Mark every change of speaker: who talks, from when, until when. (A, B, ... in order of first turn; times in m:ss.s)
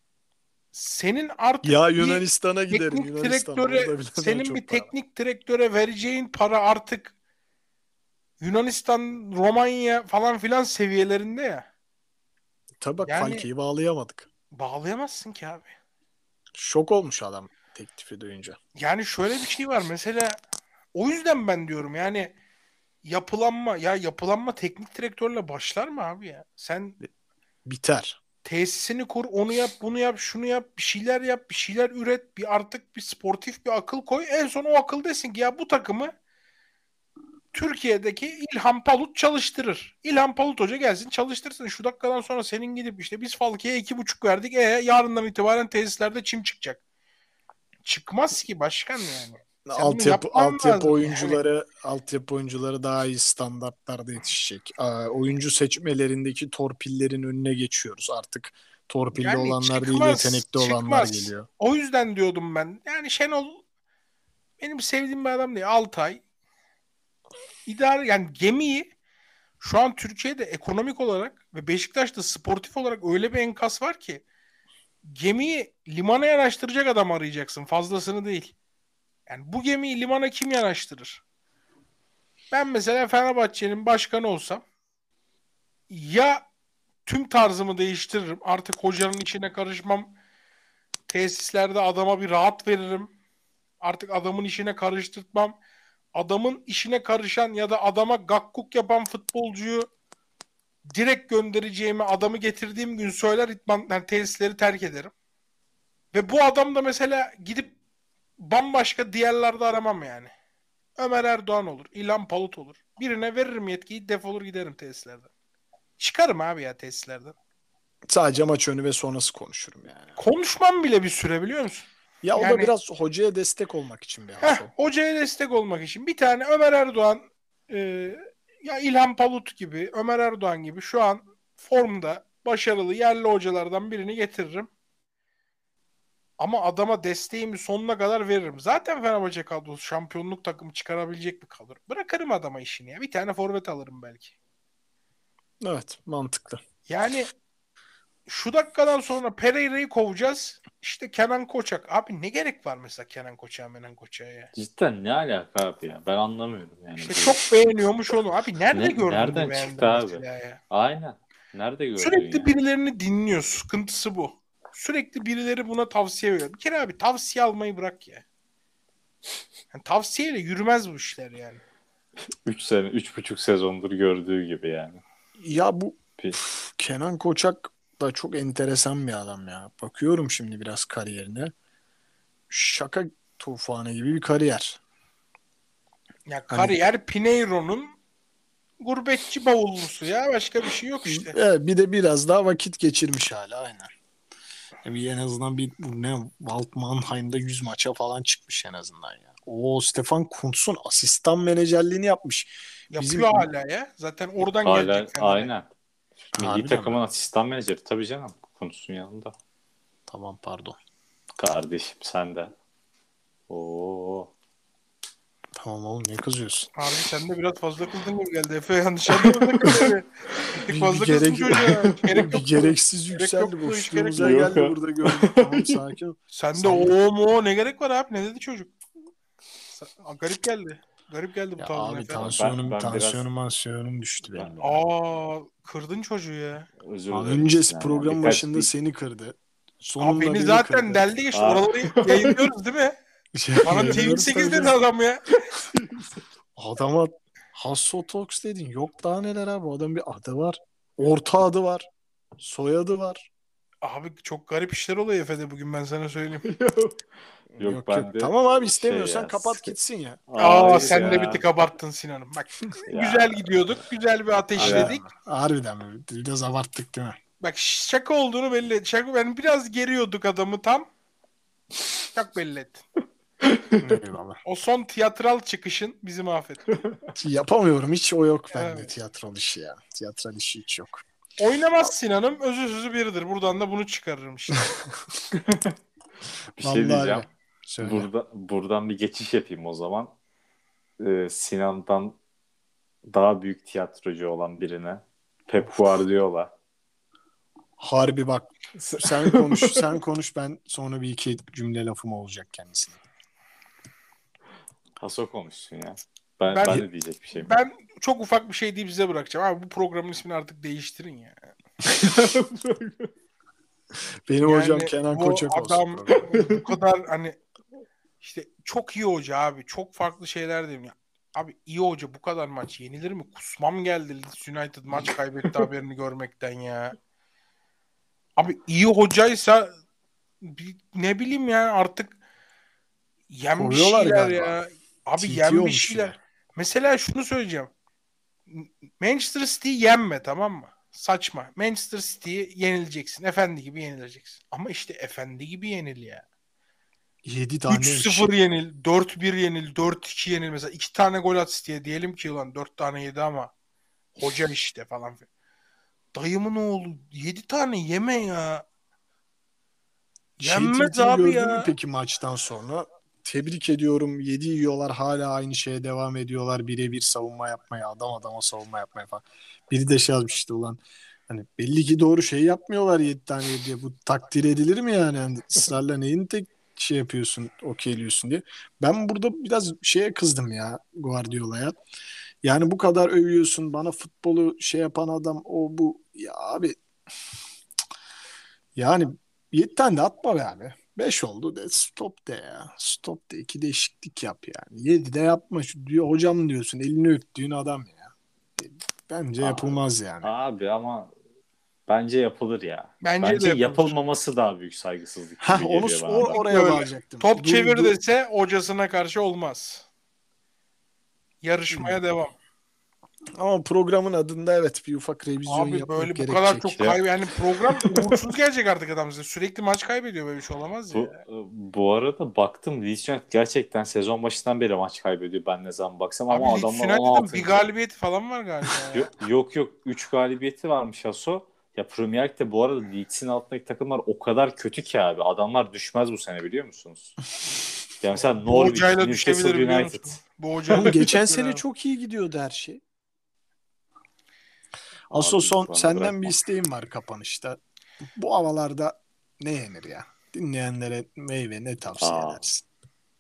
0:00.7-0:07.1 A
0:01.6-0:04.9 B
0:08.4-0:11.7 A
0:12.8-0:14.3 B
0:13.1-0:13.5 A
0:14.5-0:15.7 A
0:16.6-0:18.6 B
0:18.8-0:20.4 A
0:21.0-0:22.4 A
0:23.0-0:27.0 A
0:27.6-0:28.2 B
0:28.4-0:36.1 A
0:37.5-0:46.8 A
0:47.8-0:51.4 A
0:49.6-1:01.5 B
0:59.2-1:03.6 A
1:04.6-1:06.2 A
1:07.7-1:08.9 A
1:09.6-1:14.2 A
1:15.0-1:18.6 A
1:19.3-1:21.2 A
1:22.5-1:24.6 A
1:25.9-1:26.5 A
1:27.0-1:30.1 A
1:31.1-1:33.1 A
1:33.8-1:35.6 A
1:36.1-1:39.9 A
1:40.9-1:45.1 A
1:46.1-1:47.8 A
1:48.4-1:50.3 A
1:51.0-1:55.3 A
1:56.0-1:57.4 A
1:58.1-2:00.2 B
2:00.2-2:02.7 A
2:02.2-2:04.7 B
2:04.4-2:14.7 A
2:16.4-2:24.4 A
2:25.6-2:26.6 B
2:26.9-2:27.3 A
2:28.3-2:34.5 A
2:34.5-2:37.4 C
2:37.0-2:40.6 A
2:38.7-2:42.5 C
2:42.0-2:48.2 A
2:49.7-2:51.6 A
2:52.4-2:55.0 C
2:55.4-2:56.0 B
2:56.6-3:01.5 B
3:02.5-3:04.8 B
3:06.3-3:08.0 A
3:06.5-3:06.8 B
3:08.8-3:11.4 A
3:11.0-3:13.9 B
3:14.8-3:23.5 B
3:22.9-3:25.5 A
3:24.6-3:25.7 C
3:26.3-3:29.3 C
3:26.4-3:27.0 B
3:30.1-3:30.8 B
3:31.4-3:32.5 C
3:33.5-3:34.3 C
3:35.6-3:36.7 B
3:36.8-3:44.5 A
3:39.3-3:39.8 C
3:40.7-3:47.0 B
3:41.9-3:42.3 C
3:44.2-3:45.8 C
3:46.3-3:48.7 A
3:49.7-3:52.3 A
3:51.6-3:54.8 B
3:52.2-3:53.2 C
3:54.6-3:56.7 A
3:56.8-3:58.7 C
3:57.1-4:01.1 B
4:00.0-4:03.0 A
4:01.3-4:02.5 C
4:03.3-4:04.8 B
4:03.6-4:05.2 A
4:03.7-4:04.0 C
4:05.5-4:06.2 C
4:06.6-4:11.9 B
4:12.4-4:13.3 B
4:13.8-4:16.4 A
4:16.4-4:17.0 C
4:17.6-4:21.2 B
4:17.6-4:19.7 C
4:20.3-4:21.4 C
4:20.4-4:25.0 A
4:22.9-4:23.7 C
4:24.6-4:24.9 C
4:24.6-4:27.2 B
4:27.4-4:30.9 A
4:32.2-4:32.8 A
4:33.4-4:34.0 C
4:33.8-4:34.4 B
4:34.4-4:36.6 A
4:36.7-4:37.0 C
4:37.2-4:41.0 B
4:38.5-4:38.9 A
4:41.4-4:44.7 A
4:45.3-4:45.8 C
4:46.6-4:47.3 C
4:46.6-4:48.1 B
4:47.8-4:50.1 C
4:51.0-4:52.2 C
4:53.1-4:56.5 C
4:57.8-5:03.0 B
4:59.0-4:59.8 C
5:05.0-5:07.6 C
5:06.5-5:11.4 A
5:11.9-5:13.1 C
5:14.3-5:16.3 B
5:14.5-5:17.4 A
5:16.3-5:16.6 C
5:18.2-5:27.0 A
5:28.4-5:29.7 A
5:30.4-5:32.2 A
5:33.3-5:37.7 A
5:33.6-5:34.6 B
5:35.2-5:36.2 B
5:38.5-5:46.3 A
5:47.2-5:48.3 B
5:47.7-5:53.5 A
5:54.2-5:55.3 A
5:56.1-5:58.6 A
6:00.4-6:21.8 B
6:00.4-6:01.7 A
6:22.4-6:26.8 B
6:28.8-6:40.3 B
6:39.4-6:41.1 C
6:41.9-6:46.4 C
6:43.0-6:44.0 A
6:45.4-6:47.9 B
6:46.3-6:49.9 A
6:51.4-6:52.4 A
6:51.7-6:52.0 B
6:53.4-6:56.7 B
6:55.5-7:01.2 A
7:00.9-7:07.6 C
7:06.3-7:09.1 A
7:08.9-7:17.2 C
7:18.0-7:20.2 C
7:18.4-7:21.6 A
7:20.7-7:22.8 B
7:25.1-7:27.6 B
7:25.1-7:26.3 C
7:28.2-7:32.6 B
7:32.0-7:32.4 C